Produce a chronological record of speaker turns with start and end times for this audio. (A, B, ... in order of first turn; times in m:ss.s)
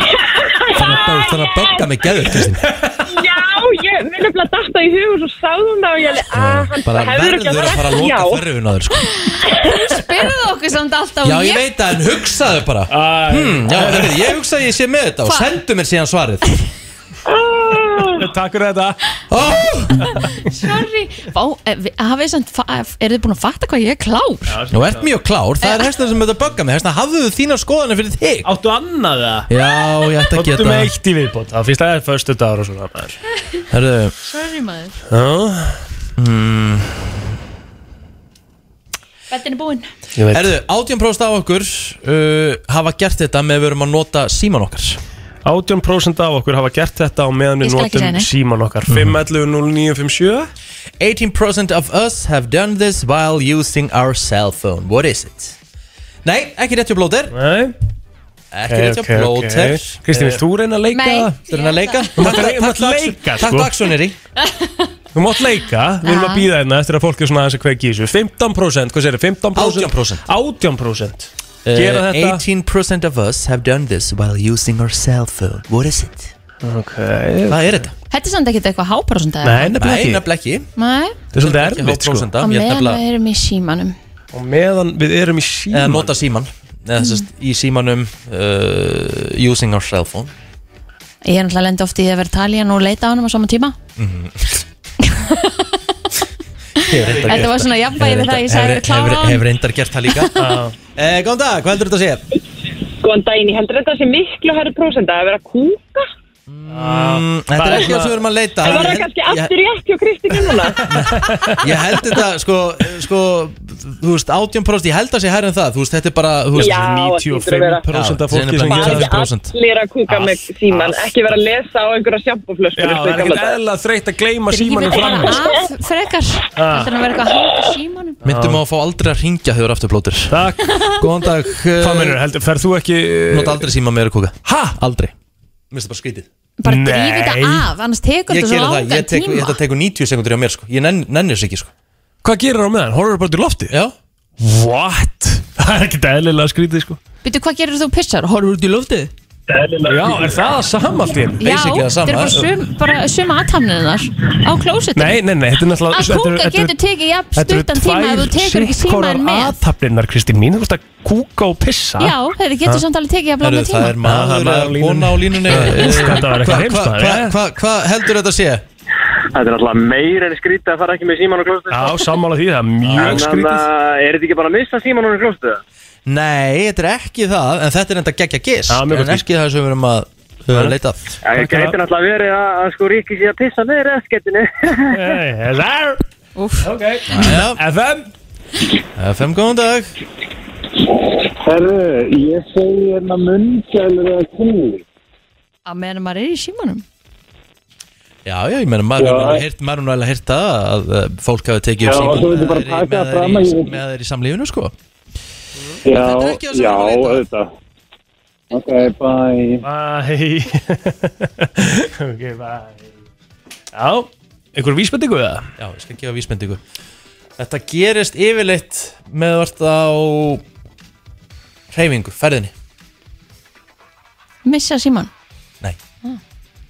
0:00.7-0:02.7 A
0:02.7-0:03.0 B
0:05.5-0:07.7 C
0:06.3-0:09.1 A
0:09.2-0:11.6 D
0:11.2-0:16.5 A
0:12.9-0:14.3 B
0:18.1-0:19.0 B
0:19.3-0:20.1 A
0:20.2-0:24.6 D
0:24.5-0:25.1 B
0:24.7-0:28.5 A
0:25.6-0:25.9 D
0:28.4-0:29.5 B
0:29.5-0:30.9 A
0:30.3-0:33.2 B
0:33.7-0:34.1 A
0:34.2-0:35.0 D
0:35.1-0:35.8 B
0:36.2-0:37.2 A
0:39.3-0:39.9 D
0:40.2-0:40.5 B
0:40.3-0:45.0 A
0:45.4-0:50.5 B
0:47.6-0:48.3 D
0:48.9-0:49.2 A
0:51.0-0:55.6 A
0:56.2-0:57.3 A
0:57.3-0:57.7 B
0:58.5-1:00.4 A
0:58.7-1:01.4 B
1:00.9-1:02.3 D
1:01.5-1:04.2 A
1:02.2-1:03.7 B
1:04.4-1:04.9 D
1:05.1-1:12.4 B
1:06.0-1:06.5 D
1:09.5-1:10.2 A
1:11.6-1:16.3 A
1:16.6-1:17.8 B
1:17.5-1:17.9 A
1:18.1-1:19.7 D
1:19.4-1:20.2 B
1:19.7-1:20.7 A
1:20.8-1:21.2 D
1:21.3-1:22.3 B
1:21.3-1:23.0 A
1:22.4-1:23.9 D
1:24.3-1:26.1 B
1:25.7-1:30.3 A
1:31.2-1:33.8 D
1:34.0-1:34.6 A
1:35.0-1:35.7 D
1:36.8-1:40.4 A
1:36.8-1:39.4 D
1:37.1-1:37.5 B
1:40.4-1:40.7 B
1:41.0-1:42.2 A
1:43.0-1:45.8 C
1:46.5-1:49.5 A
1:46.7-1:48.2 B
1:48.7-1:50.8 C
1:50.8-1:56.8 A
1:50.8-1:51.7 B
1:56.6-1:57.8 C
1:56.7-1:59.2 B
1:57.9-1:59.5 A
1:58.8-2:03.5 C
2:00.1-2:00.9 B
2:02.7-2:05.4 B
2:04.5-2:08.2 D
2:06.6-2:06.9 B
2:08.2-2:12.2 A
2:08.2-2:08.6 B
2:10.3-2:10.8 B
2:11.8-2:13.7 B
2:13.3-2:15.1 A
2:14.4-2:14.8 B
2:15.7-2:16.3 A
2:16.6-2:19.6 D
2:16.6-2:17.7 B
2:18.3-2:21.7 A
2:22.2-2:23.7 B
2:23.7-2:23.9 A
2:24.4-2:27.0 B
2:27.2-2:29.1 D
2:29.7-2:31.4 B
2:31.4-2:35.2 D
2:31.4-2:32.4 A
2:34.9-2:36.8 B
2:35.9-2:39.6 D
2:37.3-2:42.8 B
2:42.0-2:44.0 D
2:43.4-2:48.6 A
2:44.0-2:47.4 B
2:49.3-2:52.2 E
2:51.7-2:53.6 B
2:52.8-2:53.2 A
2:52.9-2:55.6 E
2:56.1-3:01.2 A
2:58.7-2:59.2 B
3:01.2-3:05.1 E
3:01.3-3:01.8 B
3:04.9-3:06.0 B
3:06.4-3:06.7 D
3:06.6-3:08.1 B
3:07.1-3:07.6 A
3:09.0-3:09.9 A
3:11.4-3:14.8 F
3:15.6-3:16.8 D
3:18.2-3:24.7 A
3:19.0-3:19.4 F
3:21.9-3:23.7 F
3:25.9-3:27.3 A
3:25.9-3:27.3 E
3:28.5-3:29.6 F
3:29.6-3:32.8 B
3:33.7-3:35.4 B
3:35.6-3:36.6 A
3:37.4-3:40.4 A
3:41.7-3:42.5 A
3:44.4-3:45.1 D